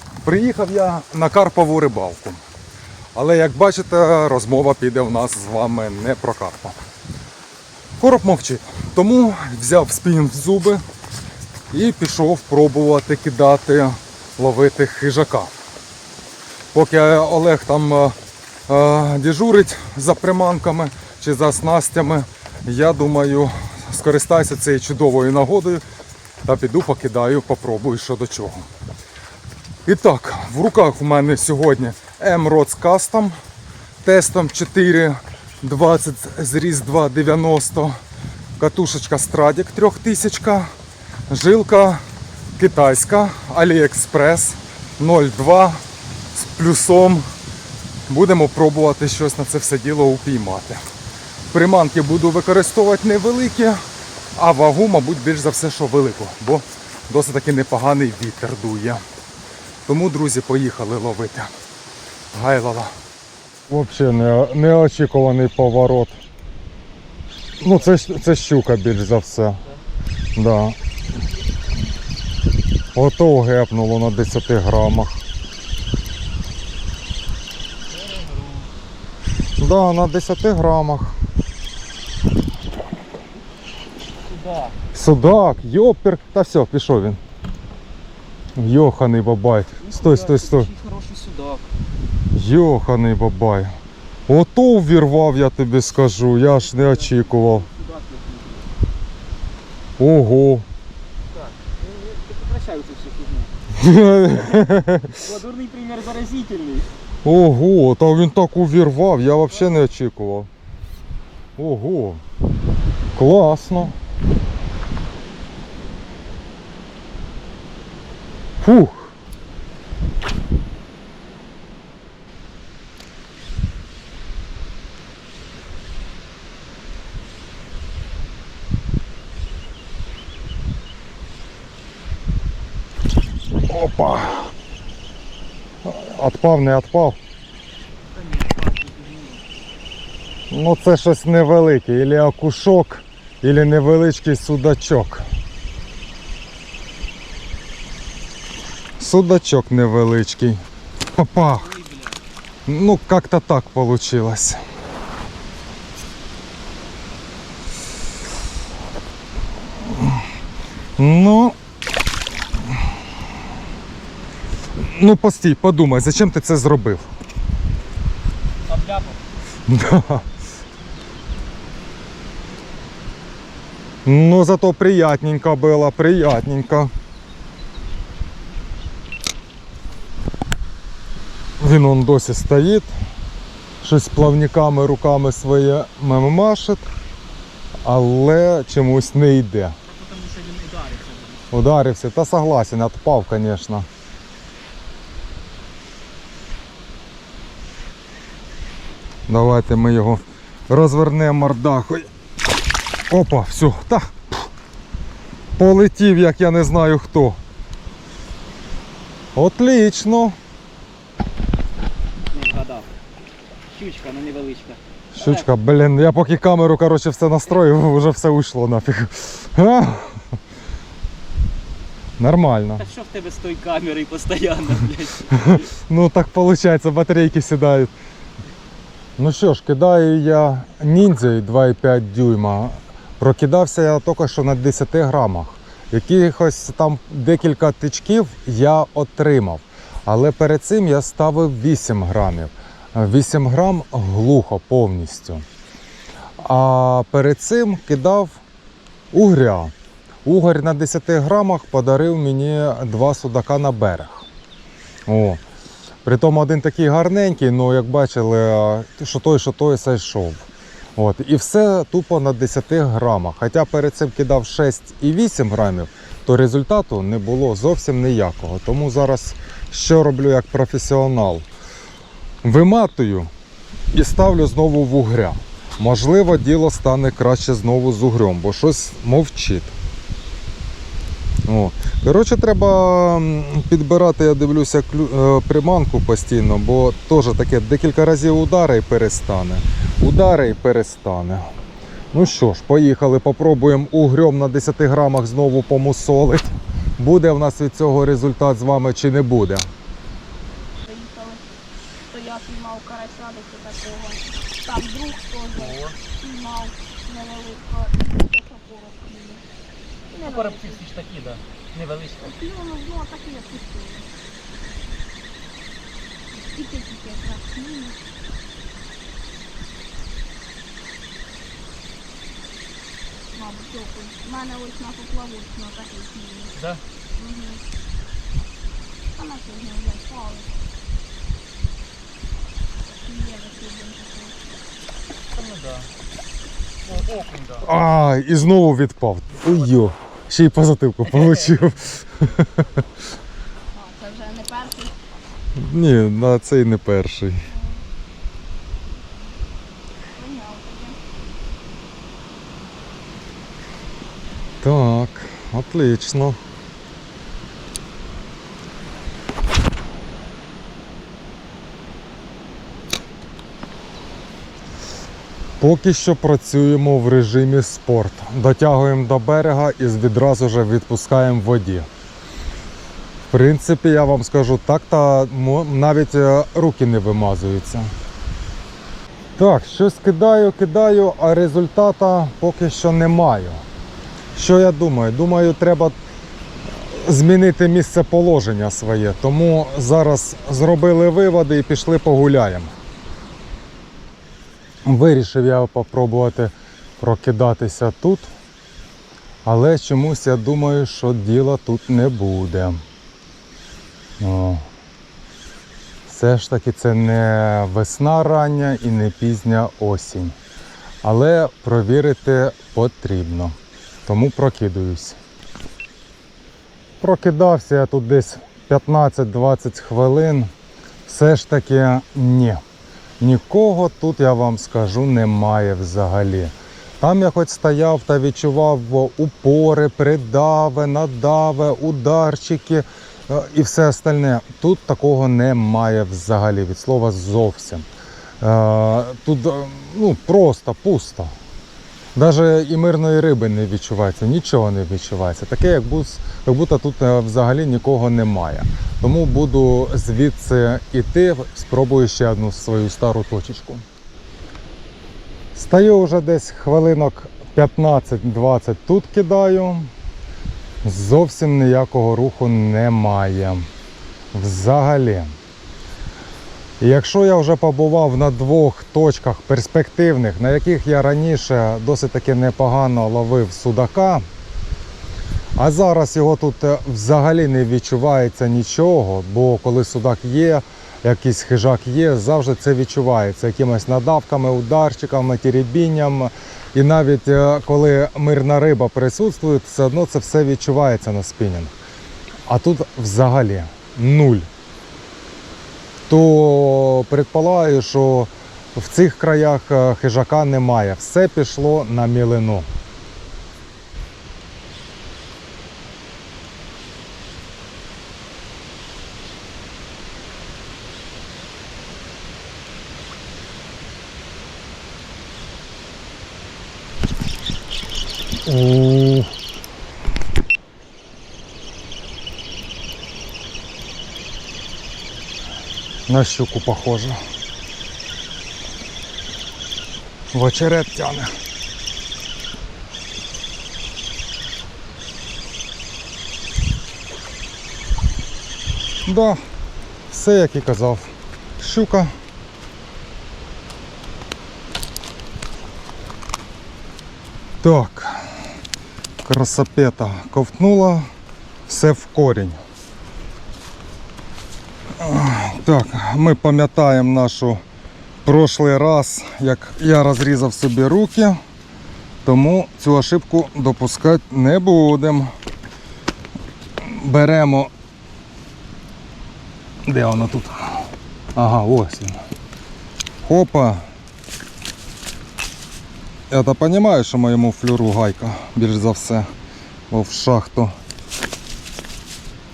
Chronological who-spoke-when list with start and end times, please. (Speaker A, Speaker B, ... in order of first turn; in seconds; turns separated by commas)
Speaker A: 0.2-2.4, Speaker A: 3.1-6.8, Speaker A: 8.0-10.8, Speaker A: 11.7-15.5, Speaker A: 16.7-18.2, Speaker A: 18.7-25.8, Speaker A: 26.4-28.6, Speaker A: 29.9-33.3, Speaker A: 34.0-38.0, Speaker A: 38.6-40.7, Speaker A: 41.3-42.0, Speaker A: 42.6-45.8, Speaker A: 46.3-47.2, Speaker A: 48.1-50.8, Speaker A: 51.5-53.8, Speaker A: 54.4-59.0, Speaker A: 59.9-61.5, Speaker A: 62.3-62.9, Speaker A: 63.7-66.2, Speaker A: 67.6-69.6, Speaker A: 70.4-70.8, Speaker A: 72.9-75.2, Speaker B: 78.0-78.7, Speaker A: 79.6-81.2, Speaker B: 84.3-84.8, Speaker A: 84.9-87.2, Speaker A: 88.6-90.7, Speaker B: 89.8-91.7, Speaker A: 92.3-93.7, Speaker A: 94.3-97.7, Speaker B: 96.6-98.7, Speaker A: 100.0-100.7, Speaker B: 101.3-103.5, Speaker A: 103.7-105.2, Speaker B: 105.2-106.9, Speaker A: 107.2-110.5, Speaker A: 111.6-112.2, Speaker A: 113.2-114.0, Speaker A: 118.6-119.1, Speaker A: 133.6-134.5, Speaker A: 135.8-137.2, Speaker B: 138.1-139.4, Speaker A: 140.5-145.2, Speaker A: 149.0-150.6, Speaker A: 151.1-151.8, Speaker B: 151.7-152.2, Speaker A: 152.7-154.6, Speaker A: 161.0-161.6, Speaker A: 164.8-167.1, Speaker B: 168.7-169.2, Speaker A: 169.7-170.2, Speaker A: 174.1-176.9, Speaker A: 181.6-182.9, Speaker A: 183.8-186.9, Speaker A: 187.8-189.8, Speaker B: 189.9-191.5, Speaker A: 191.5-193.9, Speaker A: 199.3-202.1, Speaker A: 203.1-204.1, Speaker A: 205.6-207.4, Speaker A: 209.3-210.4, Speaker B: 212.3-212.9, Speaker B: 213.7-215.4, Speaker A: 215.1-220.2, Speaker A: 222.2-222.9, Speaker B: 222.8-225.7, Speaker A: 225.3-227.9, Speaker A: 229.2-245.4, Speaker A: 246.4-248.4, Speaker A: 249.1-249.7, Speaker A: 250.2-254.3, Speaker A: 255.1-255.4, Speaker A: 256.0-271.5, Speaker A: 272.4-273.3, Speaker A: 273.9-279.7, Speaker A: 281.5-291.4, Speaker A: 292.1-299.7, Speaker C: 300.9-301.4, Speaker C: 302.1-309.4, Speaker B: 305.6-306.0, Speaker C: 310.1-310.9, Speaker B: 310.2-312.3, Speaker C: 312.2-314.1, Speaker C: 316.3-318.0, Speaker C: 323.4-326.6, Speaker B: 326.6-326.8, Speaker C: 327.2-327.6, Speaker C: 329.2-330.6, Speaker C: 332.9-334.4, Speaker B: 335.3-335.9, Speaker B: 336.8-337.7, Speaker A: 337.6-342.8, Speaker C: 343.7-345.0, Speaker A: 345.6-347.5, Speaker C: 347.5-347.8, Speaker C: 350.1-351.0, Speaker A: 354.6-356.4, Speaker A: 365.6-371.9, Speaker A: 373.3-377.9, Speaker A: 379.4-383.6, Speaker A: 384.4-385.9, Speaker A: 386.8-392.7, Speaker A: 394.9-398.3, Speaker A: 399.4-402.8, Speaker A: 404.2-404.6, Speaker A: 406.1-410.4, Speaker A: 411.0-413.6, Speaker A: 414.1-415.2, Speaker A: 417.0-420.5, Speaker A: 421.1-422.6, Speaker A: 423.2-437.9, Speaker A: 438.4-441.3, Speaker A: 442.1-453.8, Speaker A: 455.6-459.9, Speaker A: 460.8-463.7, Speaker A: 464.3-465.4, Speaker A: 466.8-474.2, Speaker A: 475.6-491.7, Speaker A: 492.5-494.5, Speaker A: 496.1-502.7, Speaker A: 518.5-519.3, Speaker A: 526.1-527.2, Speaker A: 530.3-531.3, Speaker A: 539.0-539.4, Speaker A: 540.1-542.1, Speaker A: 547.6-548.2, Speaker A: 549.2-551.1, Speaker A: 551.7-552.6, Speaker A: 555.0-557.6, Speaker A: 558.2-561.4, Speaker A: 562.2-565.3, Speaker A: 566.8-567.7, Speaker A: 569.9-572.2, Speaker A: 573.2-573.8, Speaker A: 576.3-579.3, Speaker A: 579.9-580.7